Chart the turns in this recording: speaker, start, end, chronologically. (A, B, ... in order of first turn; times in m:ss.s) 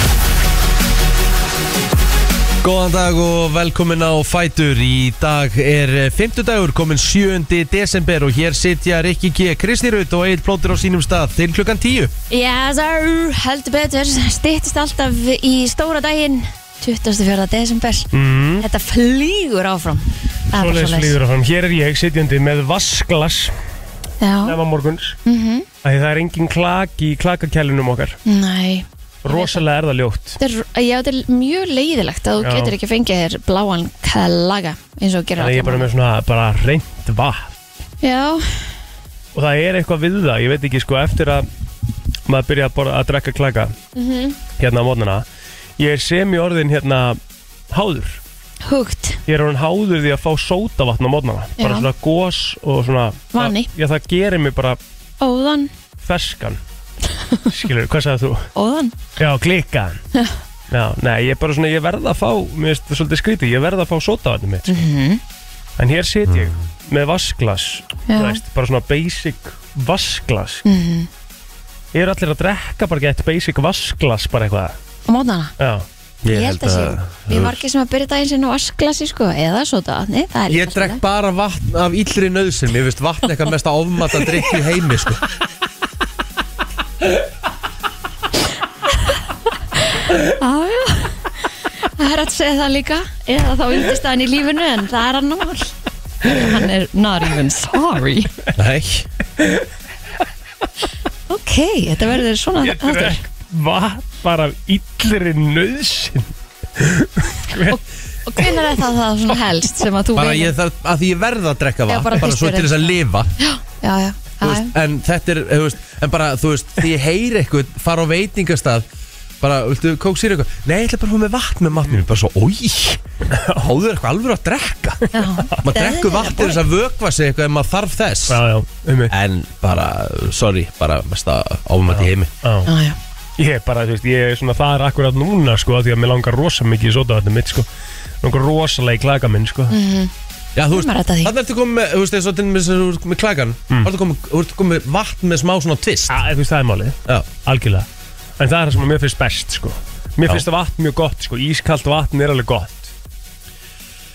0:02.6-0:12.1 A
0:12.3-0:21.2 B
0:18.1-0:18.6 C
0:20.5-0:23.6 C
0:24.2-0:24.6 B
0:24.4-0:25.2 C
0:25.2-0:25.7 B
0:25.8-0:28.2 C
0:28.2-0:29.6 B
0:29.2-0:30.4 C
0:30.4-0:35.9 B
0:32.4-0:32.8 C
0:35.4-0:37.5 C
0:38.0-0:38.8 B
0:39.3-0:41.5 C
0:42.3-0:43.8 C
0:44.0-0:44.4 B
0:44.6-0:45.2 C
0:45.8-0:47.2 C
0:47.7-0:48.2 C
0:48.6-0:49.2 B
0:49.3-0:54.8 C
0:51.6-0:51.9 B
0:53.3-0:53.7 B
0:55.2-0:55.7 B
0:56.0-0:56.6 C
0:57.2-0:57.4 B
0:57.5-0:58.5 C
0:58.6-0:59.0 B
0:59.2-1:00.0 C
1:00.7-1:04.8 C
1:04.7-1:05.2 B
1:05.8-1:10.6 C
1:06.2-1:06.6 A
1:08.1-1:08.4 B
1:10.6-1:11.1 B
1:11.9-1:14.8 C
1:15.1-1:15.5 B
1:15.6-1:15.9 C
1:16.2-1:17.6 A
1:16.3-1:21.0 B
1:20.5-1:25.2 A
1:29.8-1:31.3 B
1:31.8-1:38.3 B
1:38.6-1:39.1 A
1:41.3-1:43.2 B
1:42.6-1:47.8 C
1:47.6-1:50.5 B
1:48.4-1:48.7 C
1:50.2-1:53.3 A
1:51.9-1:54.7 B
1:54.4-1:58.9 A
1:59.4-2:03.0 A
2:03.3-2:03.6 C
2:03.6-2:05.1 A
2:05.1-2:06.6 B
2:05.6-2:08.4 A
2:08.3-2:09.1 C
2:09.1-2:12.3 A
2:11.9-2:12.7 C
2:12.7-2:13.0 B
2:13.4-2:17.7 C
2:18.2-2:19.8 C
2:19.7-2:20.1 B
2:20.6-2:26.2 A
2:20.7-2:21.3 B
2:26.1-2:27.9 C
2:28.4-2:32.9 C